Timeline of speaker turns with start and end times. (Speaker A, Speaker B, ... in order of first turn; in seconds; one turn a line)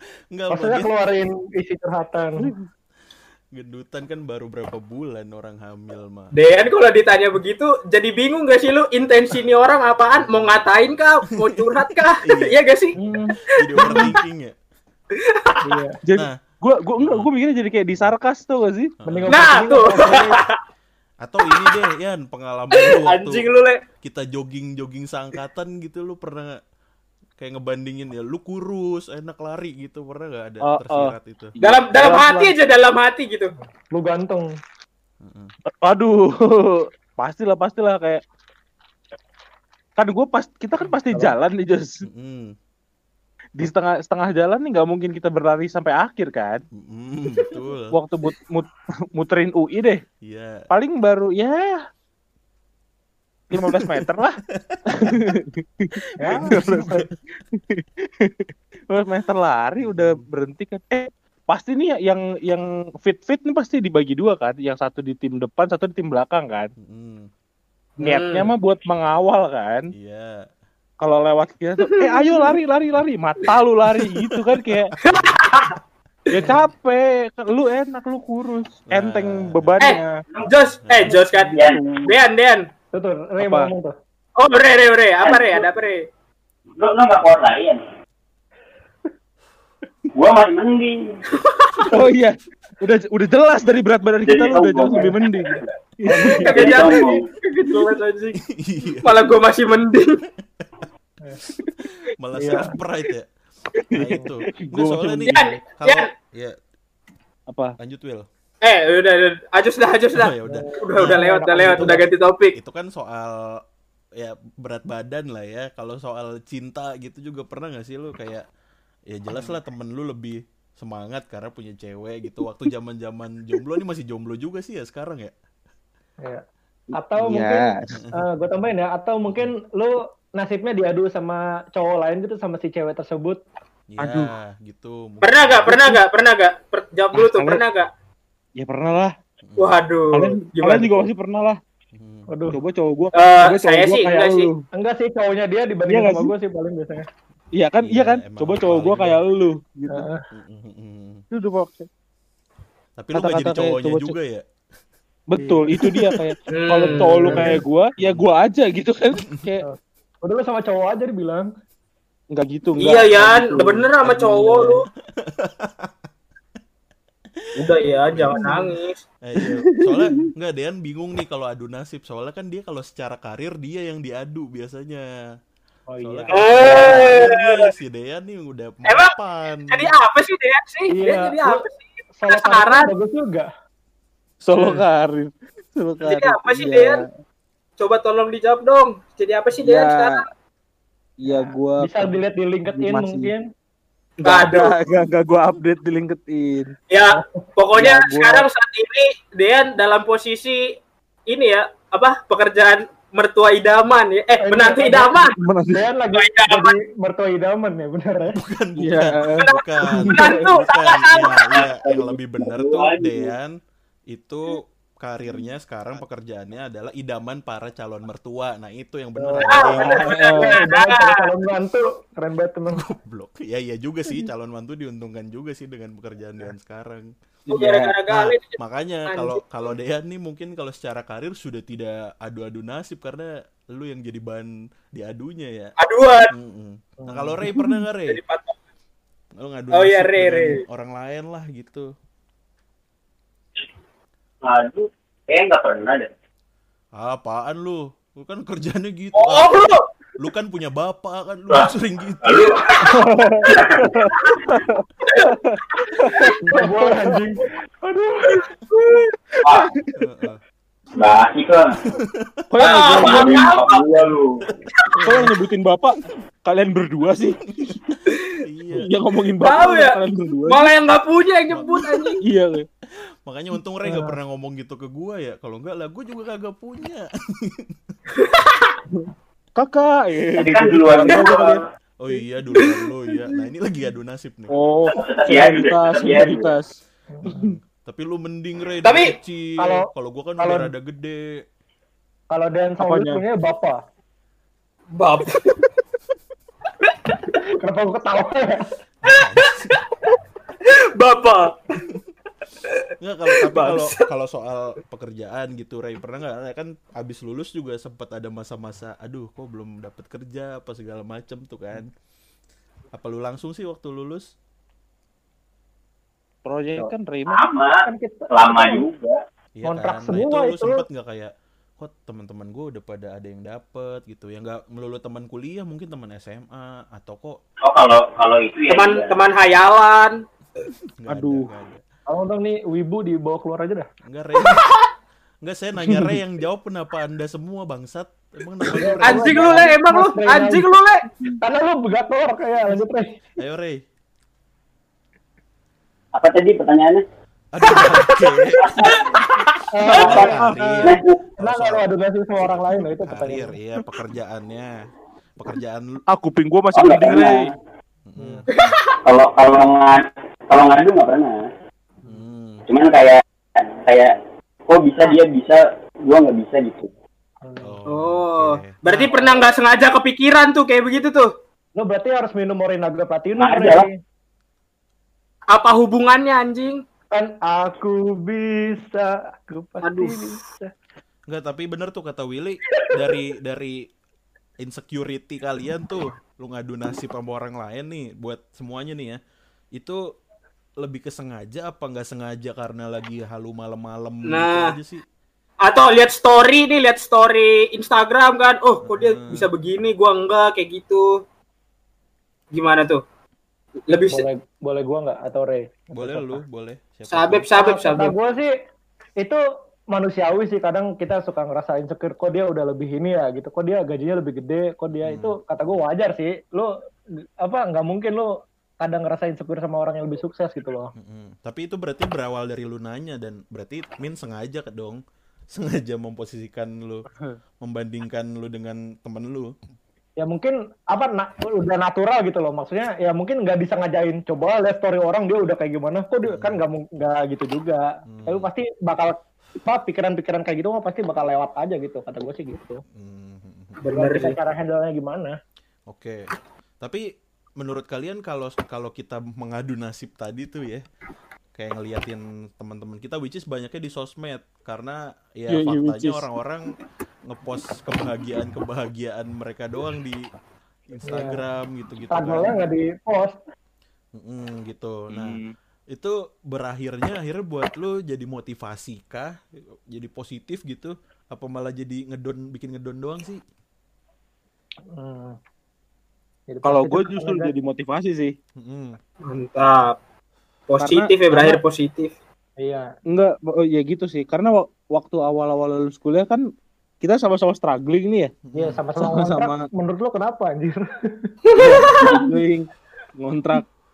Speaker A: 0.3-0.9
Speaker B: 0.5-2.5
Speaker C: 2.4-2.7
Speaker A: 3.5-6.3
Speaker D: 6.3-12.9
Speaker A: 9.3-10.7
Speaker A: 11.4-12.6
Speaker C: 13.0-14.1
Speaker A: 13.5-14.6
Speaker D: 15.2-15.8
Speaker B: 15.6-16.0
Speaker C: 16.1-18.9
Speaker A: 17.0-17.3
Speaker A: 19.0-20.4
Speaker B: 19.1-20.4
Speaker D: 19.3-20.6
Speaker A: 21.2-23.5
Speaker D: 22.8-23.8
Speaker A: 24.0-26.6
Speaker A: 27.4-31.6
Speaker C: 30.6-32.5
Speaker D: 31.6-33.5
Speaker B: 33.6-34.5
Speaker A: 35.2-35.5
Speaker C: 35.8-38.2
Speaker C: 40.0-42.0
Speaker B: 40.8-41.4
Speaker A: 42.0-42.5
Speaker C: 43.6-46.6
Speaker A: 46.7-48.0
Speaker C: 47.9-50.0
Speaker A: 50.2-50.7
Speaker C: 50.7-51.8
Speaker C: 53.5-54.4
Speaker A: 53.5-54.0
Speaker A: 54.5-55.3
Speaker C: 54.9-55.9
Speaker A: 56.0-57.1
Speaker B: 56.2-56.7
Speaker C: 56.5-57.0
Speaker C: 57.6-66.7
Speaker A: 59.8-60.2
Speaker A: 66.8-67.3
Speaker D: 68.0-68.5
Speaker C: 68.0-69.9
Speaker A: 69.9-70.5
Speaker C: 71.0-74.9
Speaker A: 74.7-75.7
Speaker D: 75.0-75.8
Speaker C: 76.3-80.2
Speaker A: 78.9-79.8
Speaker D: 79.8-82.7
Speaker A: 80.9-81.2
Speaker E: 81.5-81.8
Speaker C: 81.6-82.1
Speaker B: 82.9-84.0
Speaker C: 83.4-83.7
Speaker D: 84.4-86.0
Speaker E: 85.2-85.7
Speaker E: 86.8-87.8
Speaker E: 90.2-91.2
Speaker D: 91.4-91.9
Speaker C: 91.9-96.5
Speaker E: 94.2-95.7
Speaker B: 96.1-97.0
Speaker D: 96.3-98.4
Speaker E: 96.4-97.3
Speaker A: 98.4-99.3
Speaker D: 99.0-100.2
Speaker A: 102.2-103.3
Speaker B: 102.4-102.8
Speaker A: 103.9-106.6
Speaker C: 103.9-105.4
Speaker D: 105.3-106.1
Speaker C: 107.5-107.8
Speaker A: 107.8-108.3
Speaker D: 108.6-112.6
Speaker A: 110.1-112.0
Speaker B: 110.4-112.1
Speaker A: 112.5-113.6
Speaker A: 114.2-118.5
Speaker A: 119.1-125.3
Speaker B: 127.0-133.4
Speaker C: 127.1-127.7
Speaker A: 127.9-128.2
Speaker A: 129.3-129.5
Speaker A: 133.9-135.8
Speaker C: 134.0-134.3
Speaker D: 135.2-137.9
Speaker C: 137.1-137.6
Speaker C: 138.6-139.1
Speaker A: 139.4-139.8
Speaker D: 139.6-141.1
Speaker C: 140.1-141.6
Speaker A: 141.9-142.3
Speaker B: 142.3-142.6
Speaker C: 142.5-144.7
Speaker D: 143.2-144.5
Speaker B: 144.7-147.1
Speaker C: 145.9-146.3
Speaker C: 147.6-150.1
Speaker A: 147.8-149.2
Speaker B: 149.9-150.2
Speaker A: 150.3-151.2
Speaker C: 151.3-151.9
Speaker A: 153.0-154.4
Speaker C: 153.1-154.2
Speaker C: 155.3-159.7
Speaker B: 155.4-155.6
Speaker A: 155.7-156.3
Speaker D: 156.5-157.6
Speaker B: 157.2-157.6
Speaker A: 158.0-158.3
Speaker B: 159.6-161.5
Speaker C: 162.3-164.7
Speaker D: 162.8-164.9
Speaker A: 164.1-164.7
Speaker A: 165.2-165.9
Speaker A: 167.4-168.6
Speaker D: 167.6-169.0
Speaker B: 168.4-168.7
Speaker A: 169.2-175.1
Speaker C: 169.4-170.2
Speaker B: 175.9-177.2
Speaker A: 176.0-179.9
Speaker D: 176.3-177.7
Speaker D: 178.9-179.2
Speaker D: 179.7-182.9
Speaker B: 180.9-181.6
Speaker B: 182.2-183.5
Speaker C: 184.4-187.1
Speaker A: 184.6-184.8
Speaker D: 186.0-187.0
Speaker D: 187.8-190.3
Speaker C: 189.6-190.2
Speaker C: 191.2-192.2
Speaker B: 191.3-193.5
Speaker C: 192.7-193.3
Speaker C: 194.2-196.7
Speaker D: 194.2-194.8
Speaker D: 196.9-200.7
Speaker C: 197.8-198.5
Speaker D: 201.3-205.3
Speaker B: 204.4-208.4
Speaker C: 205.4-205.8
Speaker D: 206.1-206.8
Speaker A: 208.3-213.6
Speaker C: 208.8-210.1
Speaker D: 209.4-211.7
Speaker E: 211.5-213.3
Speaker A: 214.1-220.1
Speaker B: 219.2-222.9
Speaker D: 219.5-221.2
Speaker C: 220.0-220.6
Speaker A: 222.7-227.1
Speaker C: 227.5-227.9
Speaker D: 227.5-229.4
Speaker A: 228.1-235.7
Speaker D: 235.8-236.3
Speaker A: 236.3-238.2
Speaker B: 237.0-237.6
Speaker D: 238.1-238.6
Speaker A: 239.4-241.9
Speaker D: 239.7-240.6
Speaker E: 244.4-246.1
Speaker A: 247.0-252.6
Speaker D: 249.2-249.8
Speaker E: 252.2-252.7
Speaker C: 252.9-257.2
Speaker E: 253.5-254.0
Speaker B: 256.4-258.4
Speaker D: 258.7-259.1
Speaker C: 259.4-259.9
Speaker E: 259.4-259.7
Speaker A: 260.0-260.4
Speaker E: 261.0-261.8
Speaker A: 261.9-262.4
Speaker C: 262.5-263.6
Speaker D: 262.6-264.0
Speaker E: 262.9-264.5
Speaker B: 265.0-265.3
Speaker C: 265.0-267.8
Speaker A: 267.6-268.9
Speaker D: 268.1-268.3
Speaker C: 268.7-270.7
Speaker D: 269.4-272.2
Speaker A: 271.5-272.2
Speaker C: 272.2-272.7
Speaker A: 273.3-277.9
Speaker B: 273.9-274.1
Speaker D: 278.2-278.7
Speaker C: 278.9-281.6
Speaker E: 280.4-281.6
Speaker A: 282.0-284.5
Speaker C: 284.5-286.7
Speaker E: 284.9-286.6
Speaker A: 287.2-291.2
Speaker D: 288.8-289.1
Speaker B: 289.6-289.9
Speaker B: 290.4-290.7
Speaker B: 292.3-293.8
Speaker C: 292.8-293.2
Speaker D: 295.0-295.6
Speaker D: 296.8-297.2
Speaker B: 297.6-298.7
Speaker A: 299.0-299.8
Speaker D: 299.1-299.9
Speaker D: 301.0-301.6
Speaker D: 302.6-304.0
Speaker A: 303.0-311.9
Speaker A: 312.9-314.3
Speaker C: 316.5-317.4
Speaker E: 317.3-319.2
Speaker B: 317.9-318.9
Speaker A: 319.6-327.4
Speaker B: 319.7-320.8
Speaker E: 327.6-329.2
Speaker D: 328.7-330.2
Speaker A: 331.0-331.8
Speaker C: 331.1-331.5
Speaker B: 332.1-333.9
Speaker A: 334.1-334.6
Speaker D: 334.4-334.8
Speaker A: 335.4-339.7
Speaker C: 335.8-336.2
Speaker B: 338.8-340.6
Speaker D: 339.0-341.1
Speaker B: 341.4-343.1
Speaker A: 343.4-343.8
Speaker E: 346.1-347.0
Speaker A: 347.5-349.0
Speaker D: 347.7-349.6
Speaker E: 348.6-349.1
Speaker B: 349.7-350.7
Speaker E: 349.9-351.2
Speaker A: 350.0-351.9
Speaker C: 350.2-350.9
Speaker B: 351.4-353.6
Speaker A: 352.4-354.7
Speaker A: 355.4-356.0
Speaker C: 356.1-357.5
Speaker E: 356.7-357.5
Speaker A: 358.1-358.5
Speaker B: 358.2-358.5
Speaker D: 358.5-358.9
Speaker E: 359.1-361.4
Speaker A: 362.1-362.7
Speaker E: 362.7-366.9
Speaker B: 367.4-367.8
Speaker A: 367.6-369.1
Speaker D: 367.9-371.3
Speaker B: 371.8-374.0
Speaker E: 373.4-373.9
Speaker D: 375.5-376.8
Speaker B: 377.1-380.7
Speaker D: 379.8-380.4
Speaker A: 381.3-383.8
Speaker A: 384.6-389.2
Speaker A: 390.8-395.0
Speaker D: 394.2-394.8
Speaker D: 395.6-401.2
Speaker A: 398.8-399.5
Speaker D: 402.5-403.0
Speaker D: 403.9-404.3
Speaker B: 404.1-406.4
Speaker A: 405.9-407.5
Speaker D: 407.1-408.1
Speaker B: 407.5-408.5
Speaker B: 409.9-416.7
Speaker A: 414.9-415.4
Speaker B: 417.4-418.3
Speaker B: 418.8-420.9
Speaker A: 421.0-425.0
Speaker A: 425.5-427.1
Speaker A: 427.6-429.5
Speaker B: 430.2-442.8
Speaker A: 436.3-436.6
Speaker A: 438.1-438.5
Speaker A: 442.9-443.8
Speaker D: 443.8-444.4
Speaker B: 443.9-445.4
Speaker A: 445.9-446.3
Speaker A: 447.6-450.8
Speaker A: 451.5-456.7
Speaker C: 455.5-456.3
Speaker A: 457.3-460.2
Speaker A: 460.9-462.6
Speaker B: 461.1-461.4
Speaker B: 462.1-463.4
Speaker A: 464.1-465.4
Speaker C: 465.1-465.5
Speaker A: 465.9-473.4
Speaker B: 474.9-475.4
Speaker B: 476.5-477.5
Speaker C: 476.6-478.3
Speaker A: 478.6-479.0
Speaker D: 479.2-480.0
Speaker D: 480.7-482.1
Speaker C: 480.8-481.6
Speaker B: 482.6-482.9
Speaker C: 483.1-486.4
Speaker C: 487.0-488.3
Speaker A: 488.4-488.8
Speaker B: 488.5-491.4
Speaker C: 489.0-489.7
Speaker D: 491.5-492.2
Speaker C: 491.5-492.7
Speaker C: 493.2-493.7